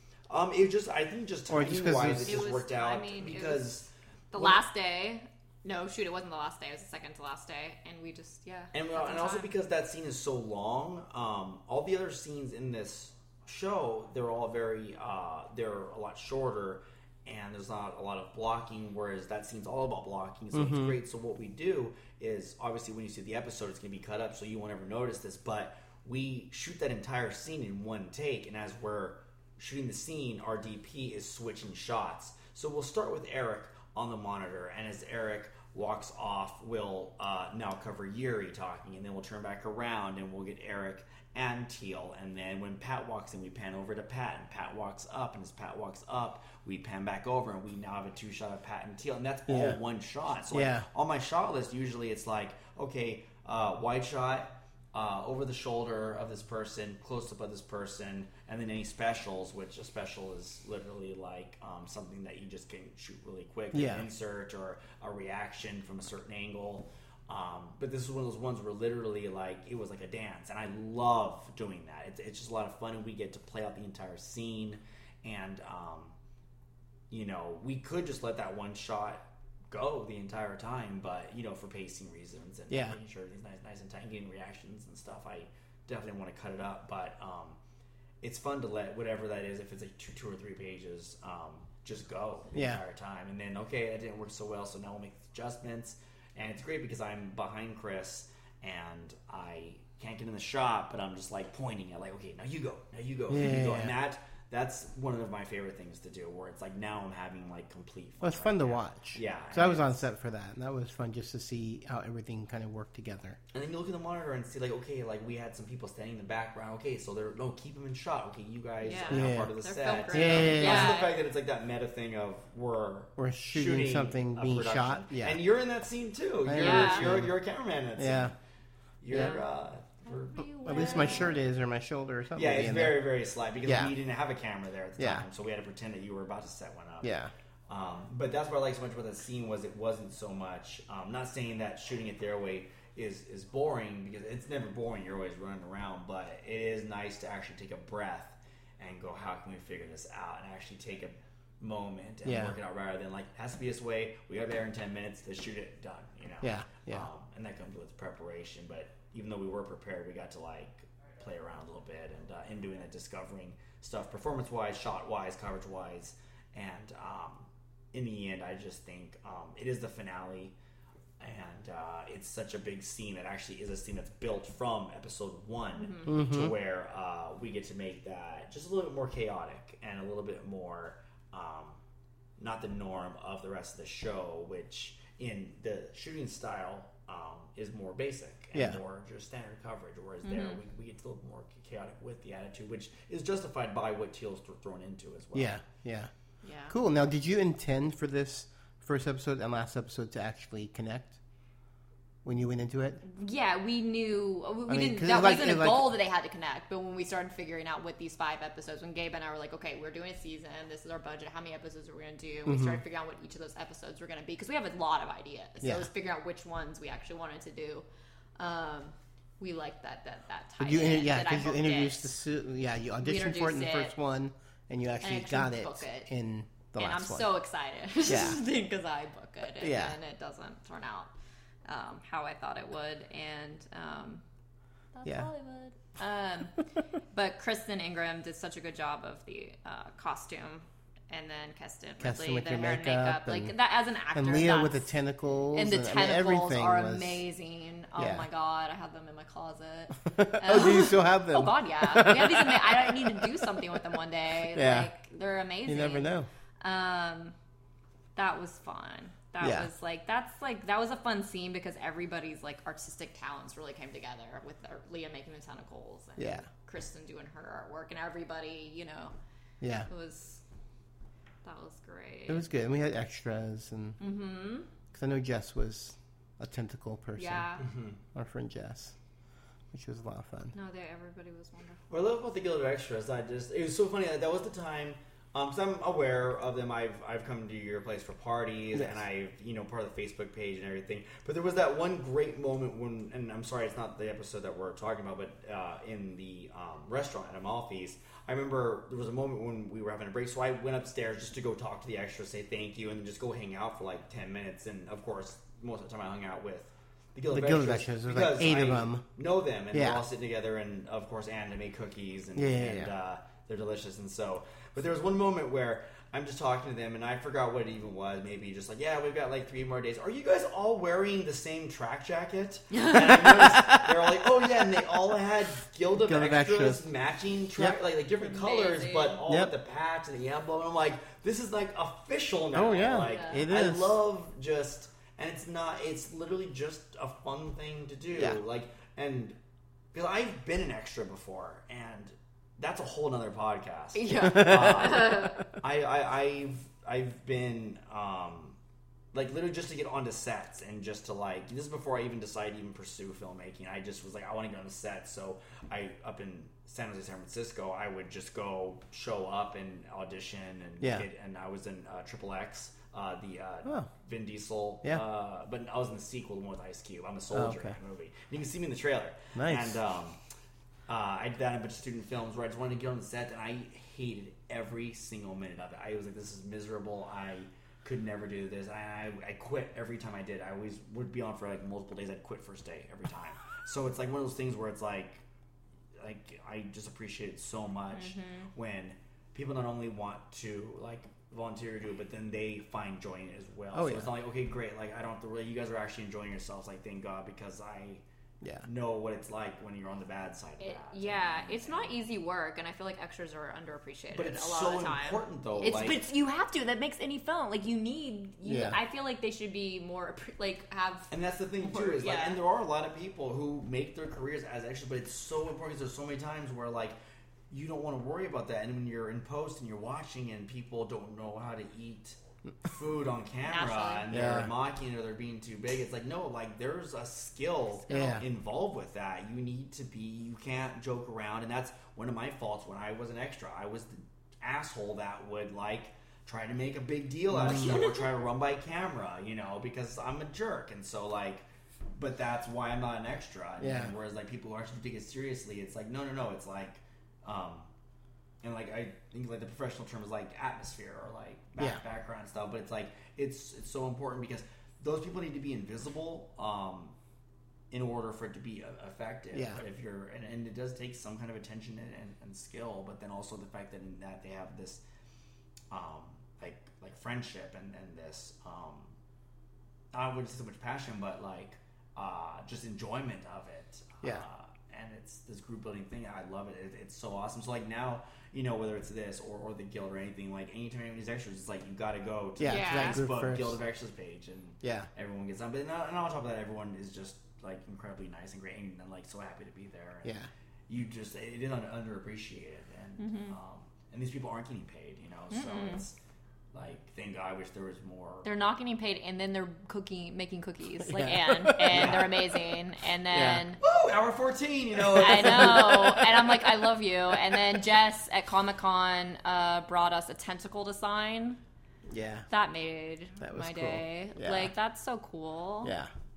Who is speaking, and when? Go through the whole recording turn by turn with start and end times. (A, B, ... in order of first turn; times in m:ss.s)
0:00.3-0:04.6 A
0:01.5-0:02.4 B
0:02.2-0:03.8 C
0:04.3-0:09.5 C
0:08.7-1:16.2 A
0:20.5-0:21.0 B
0:49.5-0:49.8 B
0:50.5-0:50.9 B
1:03.7-1:04.0 B
1:17.1-1:27.6 A
1:22.7-1:23.0 B
1:28.2-1:50.0 A
1:32.5-1:32.8 B
1:43.3-1:44.0 B
1:48.2-1:53.4 B
1:53.5-2:08.3 A
1:58.8-2:01.2 C
1:59.1-1:59.5 B
2:00.1-2:01.0 B
2:03.2-2:05.4 B
2:06.4-2:07.4 B
2:06.6-2:07.2 C
2:08.0-2:08.3 B
2:09.0-2:11.4 A
2:09.1-2:09.4 C
2:10.0-2:11.4 C
2:10.6-2:13.1 B
2:12.3-2:17.1 A
2:13.6-2:13.9 B
2:15.0-2:15.2 B
2:17.0-2:17.3 B
2:17.7-2:50.5 A
2:32.2-2:32.6 B
2:36.4-2:37.1 B
2:51.2-3:01.8 A
2:55.8-2:56.1 C
2:56.0-2:56.5 B
3:02.4-3:15.6 A
3:10.2-3:10.6 C
3:15.3-3:16.1 B
3:16.4-3:16.8 C
3:16.7-3:21.2 B
3:22.2-3:23.0 B
3:23.0-3:37.8 C
3:24.7-3:25.9 B
3:32.4-3:32.8 B
3:35.6-3:35.9 B
3:38.4-3:42.1 C
3:40.6-3:47.3 B
3:43.0-3:44.0 C
3:45.0-3:46.1 C
3:46.8-3:51.1 C
3:48.1-3:48.4 B
3:49.6-3:50.0 B
3:51.6-3:54.2 C
3:54.9-3:56.5 C
3:57.1-4:04.9 C
4:02.0-4:03.5 B
4:04.1-4:07.2 B
4:05.5-4:17.3 C
4:08.0-4:08.3 B
4:10.1-4:13.4 B
4:14.5-4:14.9 B
4:15.6-4:16.3 B
4:18.2-4:29.1 C
4:19.4-4:19.7 B
4:26.2-4:26.5 B
4:29.6-4:29.9 B
4:29.9-4:30.4 C
4:31.4-4:32.5 C
4:32.3-4:34.0 B
4:34.0-4:34.7 C
4:34.9-4:37.5 B
4:37.2-4:37.6 C
4:37.7-4:37.9 A
4:38.1-4:38.9 B
4:39.7-4:40.5 B
4:40.5-4:41.8 C
4:41.9-5:39.4 A
4:48.7-4:49.0 B
5:07.3-5:09.1 B
5:09.7-5:10.0 B
5:12.4-5:12.9 B
5:23.0-5:23.3 B
5:26.0-5:26.8 B
5:28.2-5:29.2 C
5:29.3-5:29.5 B
5:32.5-5:34.0 B
5:32.9-5:33.5 C
5:38.1-5:38.4 B
5:39.9-5:48.6 A
5:43.9-5:45.3 C
5:49.1-6:10.2 A
6:00.8-6:01.1 B
6:03.6-6:03.9 B
6:07.3-6:07.7 B
6:09.4-6:09.8 B
6:10.9-6:25.2 A
6:26.0-6:38.0 A
6:27.9-6:28.5 C
6:33.7-6:34.1 B
6:38.4-6:38.7 B
6:38.6-6:42.0 A
6:40.6-6:51.1 C
6:44.1-6:46.0 A
6:48.4-6:48.8 B
6:51.1-6:57.0 A
6:51.6-6:52.4 C
6:57.5-7:21.4 A
7:03.4-7:04.2 C
7:04.1-7:04.5 B
7:07.9-7:08.2 B
7:17.3-7:17.8 B
7:17.6-7:18.0 C
7:22.0-7:27.7 A
7:23.6-7:23.9 B
7:28.4-7:36.9 A
7:37.7-7:44.8 A
7:39.3-7:39.6 B
7:45.7-7:49.0 A
7:49.9-8:10.1 A
8:02.4-8:03.6 B
8:02.4-8:03.1 C
8:04.6-8:04.9 B
8:10.7-8:16.0 A
8:13.0-8:13.4 C
8:15.3-8:15.9 C
8:16.5-8:18.3 A
8:18.2-8:23.6 C
8:20.8-8:22.5 B
8:21.7-8:22.1 A
8:23.1-8:23.4 B
8:23.6-8:26.3 A
8:25.0-8:26.2 B
8:25.0-8:31.4 C
8:31.9-8:32.3 B
8:32.3-8:35.8 C
8:33.2-8:34.5 B
8:35.6-8:35.9 B